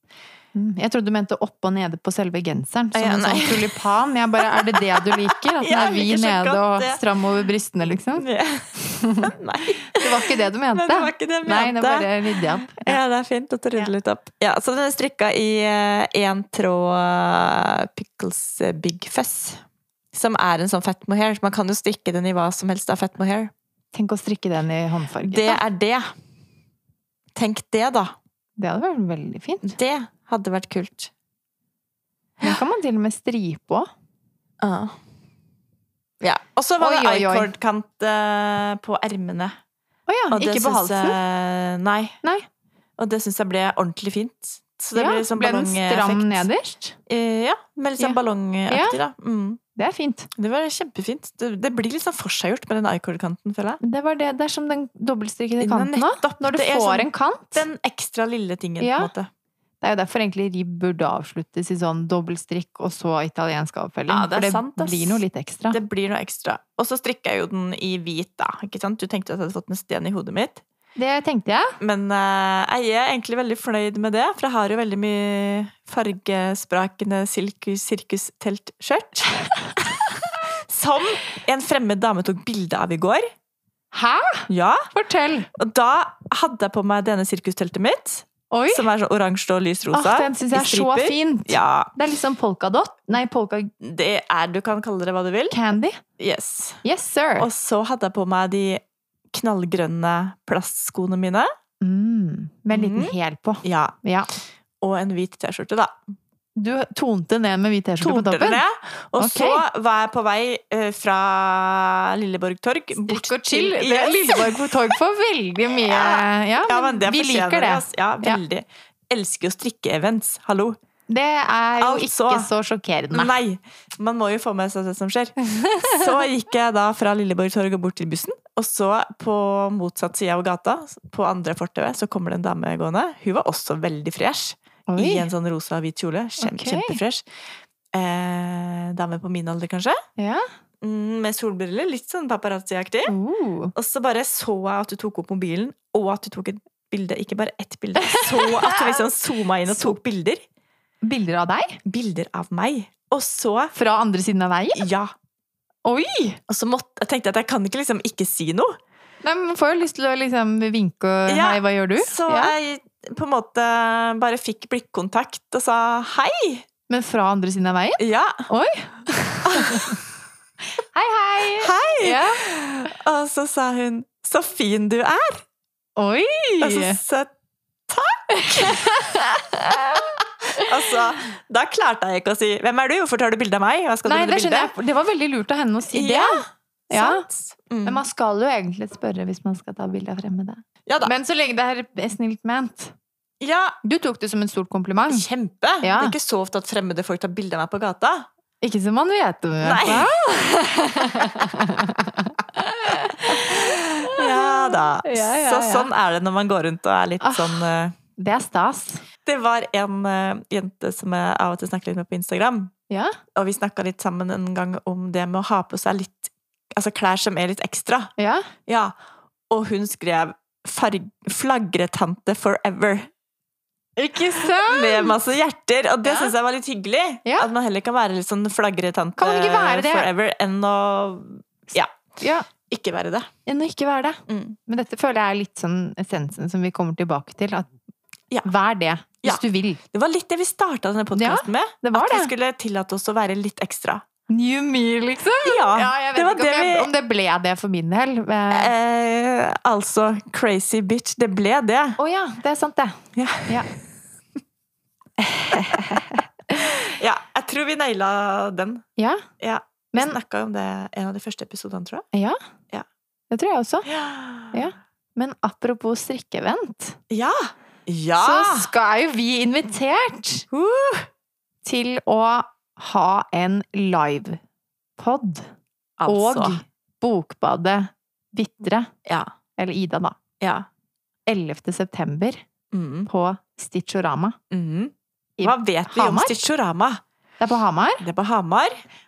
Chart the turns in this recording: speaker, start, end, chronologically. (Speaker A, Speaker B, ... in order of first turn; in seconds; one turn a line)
Speaker A: 0.6-8.3
Speaker B: 2.9-3.8
Speaker B: 4.4-7.0
Speaker B: 8.2-19.6
Speaker A: 8.8-9.3
Speaker A: 9.9-13.0
Speaker B: 20.1-23.5
Speaker A: 23.9-25.6
Speaker B: 25.2-26.1
Speaker B: 27.4-28.1
Speaker A: 28.6-29.8
Speaker B: 29.6-31.1
Speaker A: 32.4-33.9
Speaker B: 34.6-35.0
Speaker B: 36.2-39.6
Speaker A: 36.8-37.5
Speaker A: 40.1-41.2
Speaker B: 40.3-42.2
Speaker B: 43.0-46.5
Speaker A: 45.0-47.0
Speaker B: 47.1-49.6
Speaker A: 48.0-49.0
Speaker A: 49.8-50.3
Speaker B: 50.4-53.8
Speaker A: 53.8-57.7
Speaker B: 55.6-59.3
Speaker A: 58.8-59.1
Speaker A: 59.8-65.8
Speaker B: 64.1-70.6
Speaker A: 71.0-71.8
Speaker B: 71.8-83.3
Speaker A: 83.9-85.5
Speaker B: 84.5-84.9
Speaker B: 85.5-91.9
Speaker A: 88.5-88.9
Speaker A: 89.9-93.7
Speaker B: 93.8-95.6
Speaker A: 95.5-96.0
Speaker B: 96.2-96.8
Speaker A: 96.8-97.5
Speaker B: 97.4-101.5
Speaker A: 101.8-104.3
Speaker B: 102.7-104.0
Speaker B: 104.8-106.0
Speaker A: 106.6-108.6
Speaker B: 108.0-114.9
Speaker A: 109.2-109.6
Speaker A: 113.0-118.4
Speaker B: 115.8-120.8
Speaker A: 121.1-123.4
Speaker B: 121.8-122.5
Speaker B: 123.1-137.2
Speaker A: 125.5-126.1
Speaker A: 134.9-135.3
Speaker A: 136.4-137.0
Speaker B: 137.9-140.0
Speaker A: 140.2-140.5
Speaker B: 140.8-143.1
Speaker A: 143.1-143.7
Speaker B: 143.8-150.4
Speaker A: 148.0-149.1
Speaker A: 149.7-149.9
Speaker A: 151.0-151.8
Speaker B: 151.8-153.7
Speaker A: 153.7-154.9
Speaker B: 154.8-155.1
Speaker A: 155.8-156.4
Speaker B: 156.5-158.8
Speaker A: 159.2-162.5
Speaker B: 161.3-166.7
Speaker A: 166.9-170.0
Speaker B: 168.0-168.4
Speaker B: 169.5-170.0
Speaker A: 170.9-172.9
Speaker B: 171.6-175.4
Speaker A: 176.0-177.0
Speaker B: 176.6-177.3
Speaker B: 177.9-179.2
Speaker A: 178.3-180.9
Speaker B: 180.5-184.7
Speaker A: 184.1-187.2
Speaker B: 185.9-188.0
Speaker A: 187.8-192.9
Speaker B: 190.9-191.1
Speaker B: 193.4-193.8
Speaker A: 193.8-195.3
Speaker B: 195.1-198.3
Speaker A: 195.8-196.2
Speaker A: 198.6-205.9
Speaker B: 199.6-200.3
Speaker B: 203.3-207.9
Speaker A: 207.2-209.0
Speaker B: 209.2-212.7
Speaker A: 212.9-213.2
Speaker B: 213.3-218.1
Speaker A: 218.2-218.5
Speaker B: 218.7-218.9
Speaker B: 219.5-223.1
Speaker A: 224.0-225.2
Speaker B: 224.2-232.0
Speaker A: 226.0-226.3
Speaker A: 227.2-227.5
Speaker A: 229.2-230.1
Speaker A: 232.2-232.5
Speaker B: 232.7-233.3
Speaker A: 233.5-237.7
Speaker B: 234.3-234.6
Speaker A: 238.4-239.8
Speaker B: 239.2-244.0
Speaker A: 241.1-242.3
Speaker A: 244.3-248.7
Speaker B: 245.4-246.9
Speaker B: 248.5-252.0
Speaker A: 252.0-253.7
Speaker B: 253.2-253.8
Speaker B: 255.5-258.9
Speaker A: 255.5-255.8
Speaker A: 259.0-259.2
Speaker B: 259.4-262.1
Speaker A: 262.1-262.4
Speaker A: 263.3-263.9
Speaker B: 263.9-264.6
Speaker A: 264.5-267.0
Speaker B: 267.1-268.7
Speaker A: 268.2-270.5
Speaker B: 270.5-271.1
Speaker A: 271.6-274.4
Speaker A: 275.0-275.5
Speaker B: 276.0-276.6
Speaker A: 276.1-278.9
Speaker B: 279.1-279.3
Speaker A: 279.6-280.2
Speaker B: 280.4-280.7
Speaker A: 281.3-282.4
Speaker B: 282.7-283.1
Speaker A: 283.1-284.4
Speaker B: 284.5-287.0
Speaker A: 285.4-286.4
Speaker A: 287.4-288.1
Speaker B: 288.0-288.8